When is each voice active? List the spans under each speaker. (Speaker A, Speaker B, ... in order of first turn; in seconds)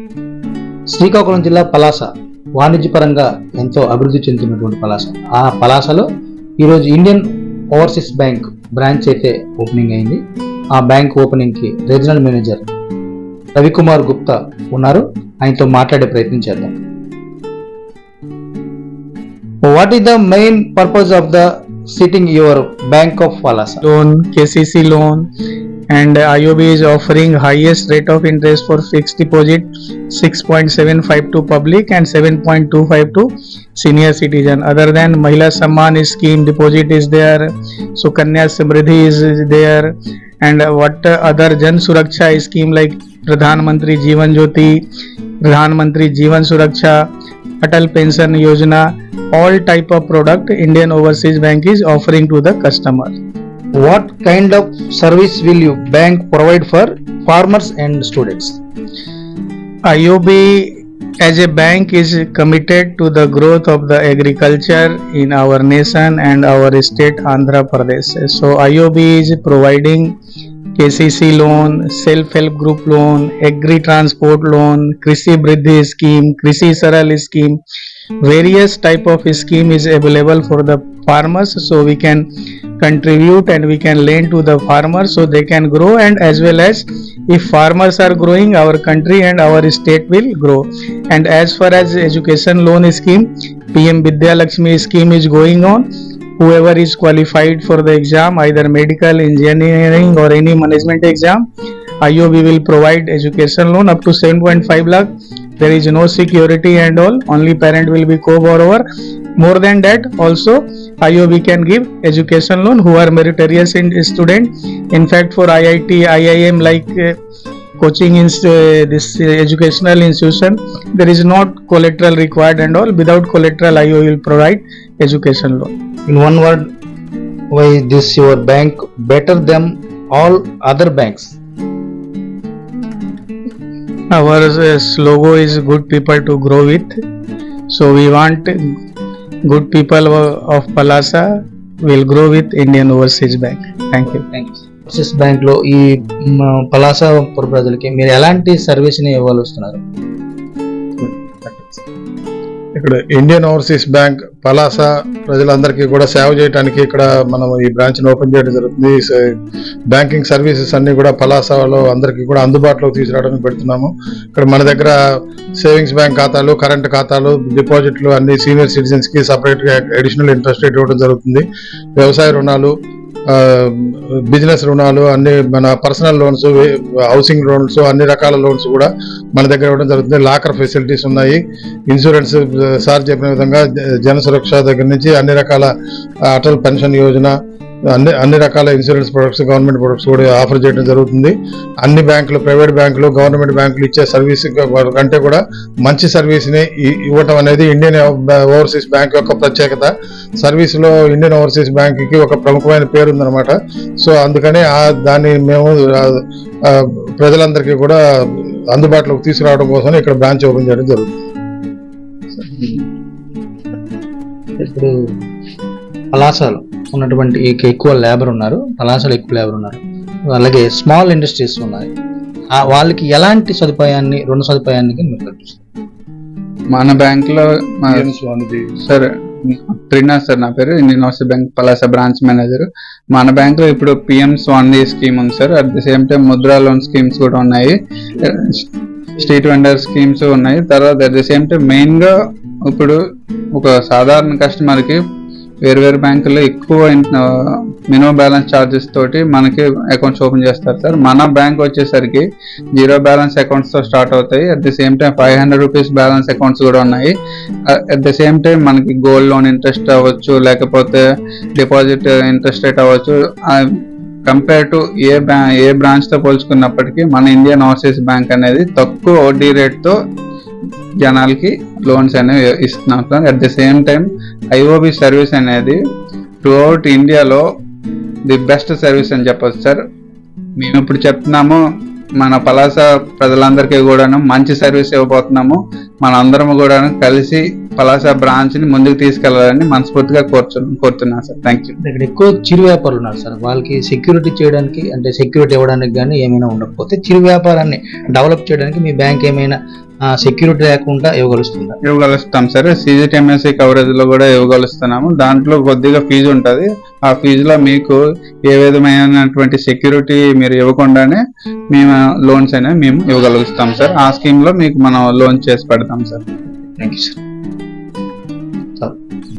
Speaker A: 0.9-6.1, 6.6-10.2, 10.7-12.7, 13.6-16.8, 19.6-23.8, 53.7-58.6, 126.1-126.7, 127.5-131.4, 144.3-149.8, 214.6-214.9, 216.1-221.9, 222.5-225.6, 291.8-301.8, 316.8-317.2
Speaker B: 23.8-25.3, 25.9-44.8, 45.4-47.0, 47.6-53.1, 59.9-70.2, 70.8-77.6, 78.2-82.3, 82.8-95.9, 96.4-101.4, 102.0-108.8, 109.4-117.2, 117.8-125.7, 134.1-137.0, 137.7-138.7, 139.5-141.3, 141.8-144.2
Speaker C: 151.0-151.8, 152.8-159.2, 159.9-164.9, 165.6-171.5, 172.0-172.7, 173.3-185.7, 186.3-187.3, 187.9-208.0, 208.7-211.1, 227.9-228.7
Speaker D: 226.7-228.1, 228.8-238.7, 239.2-242.1, 242.7-243.0, 243.6-245.0, 245.6-247.2, 247.9-252.2, 252.8-257.1, 257.7-261.0, 261.6-263.6, 264.3-269.9, 271.0-275.8, 276.4-277.4, 278.3-279.8, 280.6-281.6, 282.2-291.8, 301.8-308.0, 308.5-311.2, 311.7-316.2